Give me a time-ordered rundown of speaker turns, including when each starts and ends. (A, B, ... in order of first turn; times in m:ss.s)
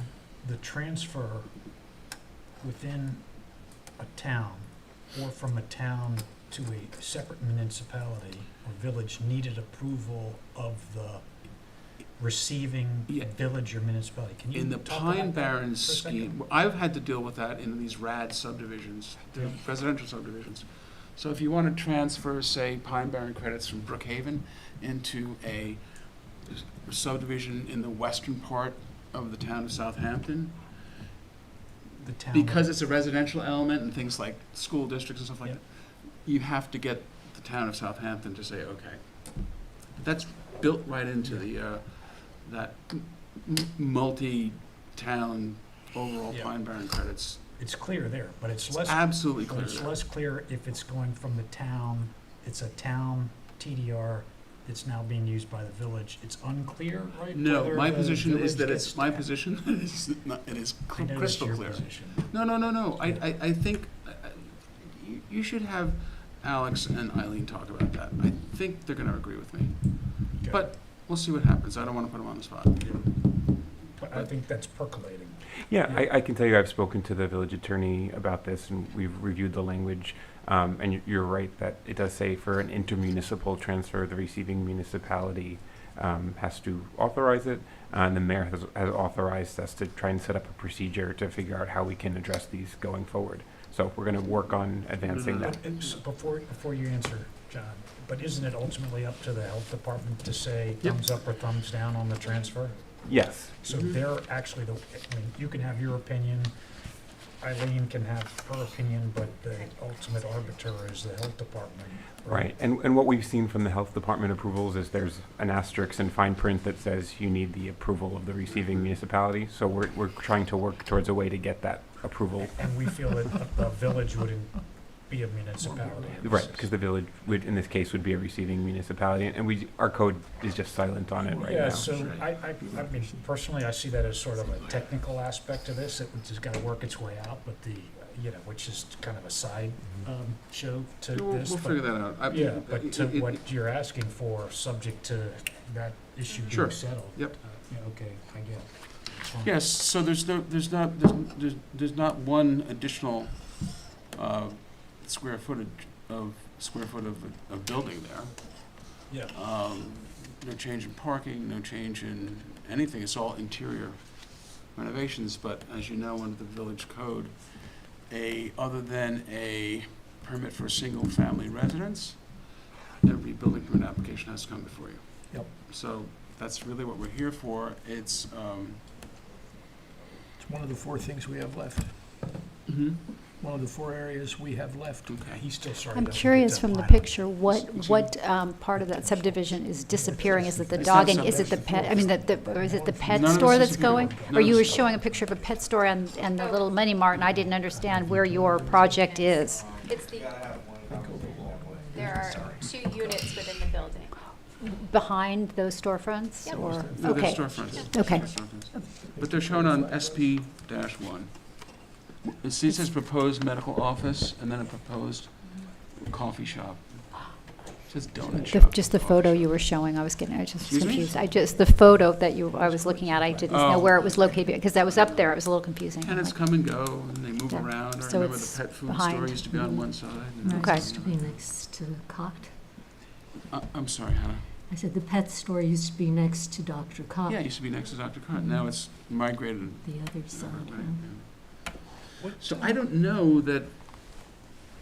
0:00.4-0:01.6 A
0:02.6-0:16.4 A
0:14.5-0:30.9 B
0:32.0-0:32.7 A
0:32.3-0:47.4 B
0:41.2-0:41.5 A
0:46.3-0:46.6 A
0:47.6-0:59.3 A
0:48.7-0:49.9 B
0:57.3-1:13.6 B
1:00.9-1:03.2 A
1:10.4-1:10.7 A
1:14.0-1:16.0 A
1:15.7-1:35.6 C
1:35.0-1:36.0 B
1:35.3-1:46.6 A
1:40.8-1:41.1 B
1:43.0-1:43.5 C
1:43.7-1:44.0 B
1:47.4-1:52.5 A
1:49.5-1:50.6 D
1:52.3-2:02.8 C
2:02.4-2:06.7 A
2:05.6-2:06.2 E
2:06.2-2:11.9 C
2:11.3-2:11.9 E
2:11.4-2:29.6 A
2:11.9-2:12.2 B
2:21.1-2:23.4 B
2:26.3-2:26.6 D
2:26.5-2:27.4 B
2:29.4-2:58.9 B
2:39.1-2:39.4 A
3:00.4-3:02.1 E
3:02.7-3:03.0 B
3:03.4-3:05.3 E
3:05.1-3:05.4 B
3:05.3-3:07.2 A
3:05.9-3:22.6 F
3:07.5-3:08.0 B
3:09.0-3:09.3 A
3:09.1-3:15.2 E
3:09.9-3:10.6 A
3:10.7-3:12.0 B
3:13.1-3:14.9 B
3:13.9-3:14.8 A
3:16.4-3:16.9 D
3:17.5-3:19.0 E
3:18.7-3:20.4 D
3:20.9-3:23.1 E
3:21.9-3:24.1 D
3:24.6-3:28.2 F
3:26.5-3:30.4 E
3:26.9-3:40.0 B
3:27.7-3:28.0 D
3:38.4-3:46.4 F
3:40.6-3:41.2 B
3:42.9-3:43.8 E
3:43.5-3:51.5 B
3:47.5-3:49.4 F
3:49.4-3:52.6 G
3:50.5-3:50.9 F
3:53.5-3:54.5 B
3:54.7-3:57.8 G
3:57.3-4:03.8 B
3:58.3-3:58.8 G
3:59.8-4:01.1 G
4:02.2-4:02.7 A